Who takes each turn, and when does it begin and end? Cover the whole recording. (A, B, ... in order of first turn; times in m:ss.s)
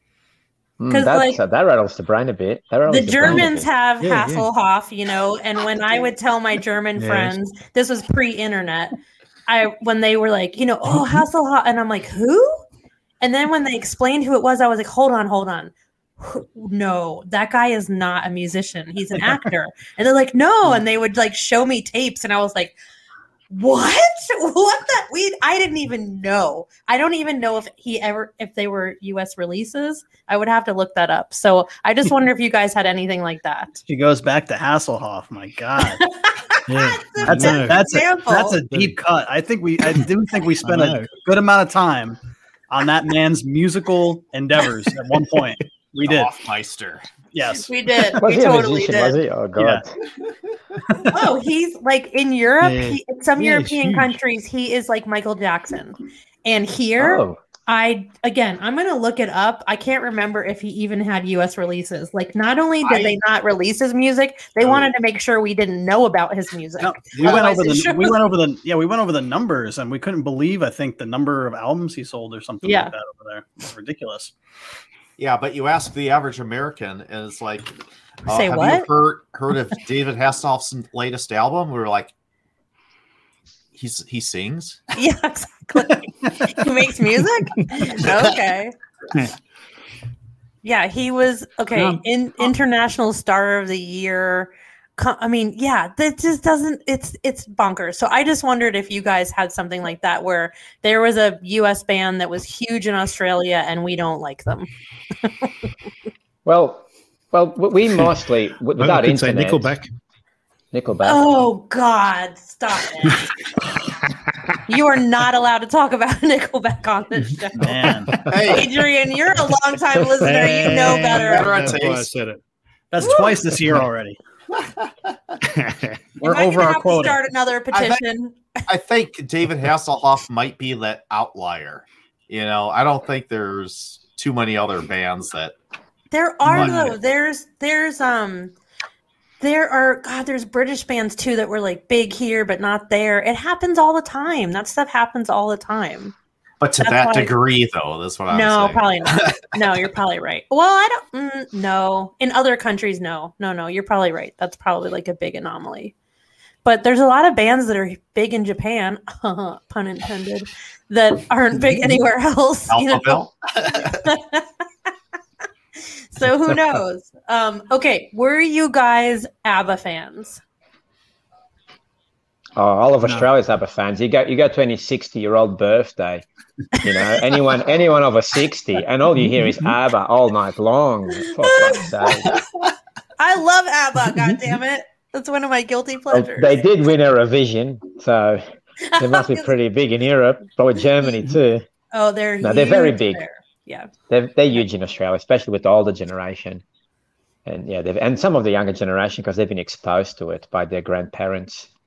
0:00.8-0:03.7 A
0:00.9-0:01.4 B
0:02.9-0:09.0 B
0:04.0-0:04.5 C
0:07.0-0:07.3 C
0:09.5-0:12.6 B
0:10.9-0:11.2 C
0:13.2-0:22.8 B
0:23.5-0:33.8 B
0:33.9-0:36.0 D
0:36.0-0:38.6 B
0:36.7-0:37.8 C
0:37.3-0:42.2 D
0:38.7-0:39.0 C
0:40.6-0:41.1 C
0:42.7-0:46.3 D
0:46.0-0:47.0 E
0:47.3-0:48.1 D
0:47.6-0:49.2 B
0:48.2-0:49.9 A
0:49.6-0:49.8 D
0:51.1-1:08.1 B
0:52.6-0:54.2 C
0:57.0-0:57.4 A
1:02.8-1:03.2 E
1:06.8-1:14.3 D
1:07.2-1:07.5 E
1:12.6-1:12.9 B
1:15.2-1:17.7 E
1:18.3-1:22.1 E
1:18.3-1:18.9 B
1:23.7-1:24.8 E
1:24.9-1:28.7 B
1:29.1-1:29.4 C
1:30.6-1:44.7 B
1:31.7-1:32.0 C
1:45.2-1:45.5 B
1:46.4-1:49.7 A
1:48.8-1:49.9 C
1:50.7-1:51.2 A
1:51.0-1:53.3 B
1:54.7-1:57.7 B
1:57.6-1:58.1 D
1:57.6-1:58.6 C
1:58.3-1:58.7 E
1:58.5-2:01.8 B
2:00.2-2:02.4 C
2:00.4-2:02.1 E
2:02.9-2:04.2 D
2:03.0-2:03.8 C
2:04.6-2:04.9 E
2:05.4-2:06.0 C
2:06.2-2:07.2 D
2:06.2-2:08.4 B
2:07.7-2:08.0 E
2:08.7-2:15.6 E
2:16.1-2:18.5 B
2:16.4-2:16.9 C
2:16.6-2:16.8 E
2:19.4-2:26.1 B
2:26.6-2:29.5 E
2:26.8-2:27.3 B
2:28.3-2:35.9 B
2:36.6-2:44.4 B
2:42.7-2:44.0 E
2:46.1-2:50.4 B
2:52.6-2:56.2 A
2:56.8-3:02.4 A
2:59.2-2:59.7 C
3:01.4-3:01.8 B
3:03.2-3:06.6 B
3:06.1-3:11.6 A
3:08.9-3:09.5 B
3:11.9-3:13.9 B
3:12.4-3:13.2 A
3:14.1-3:16.6 A
3:17.4-3:21.7 A